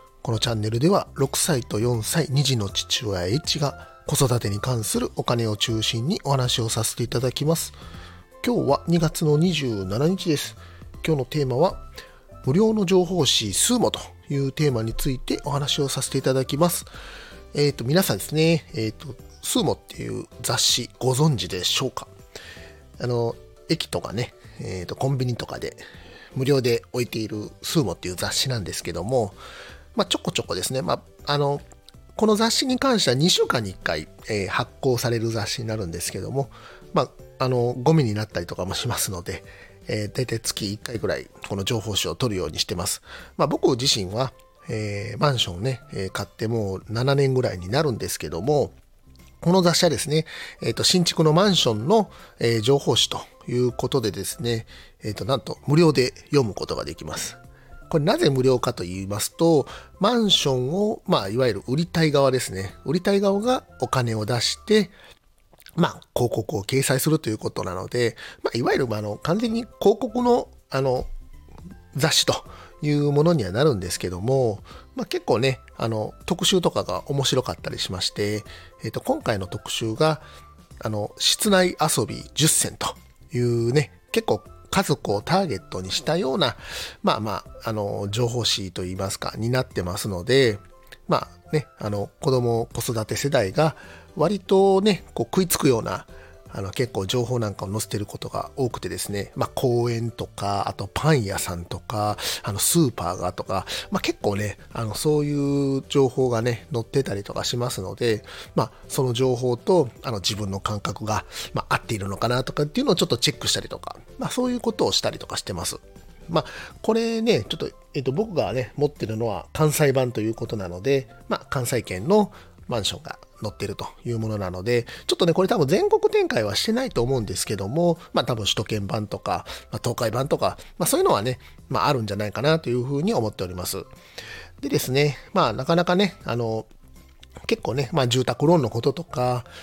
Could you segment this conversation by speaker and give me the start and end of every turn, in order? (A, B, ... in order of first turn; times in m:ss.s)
0:00.2-0:07.7 A
0:08.4-0:11.8 A
0:12.4-0:16.9 A
0:17.5-0:22.1 A
0:23.0-0:25.8 A
0:26.3-0:29.4 A
0:29.9-0:31.6 A
0:32.2-0:48.7 A
0:49.4-1:04.9 A
1:05.8-1:11.1 A
1:11.9-1:20.2 A
1:20.8-2:13.9 A
2:14.6-2:16.7 A
2:17.4-2:19.5 A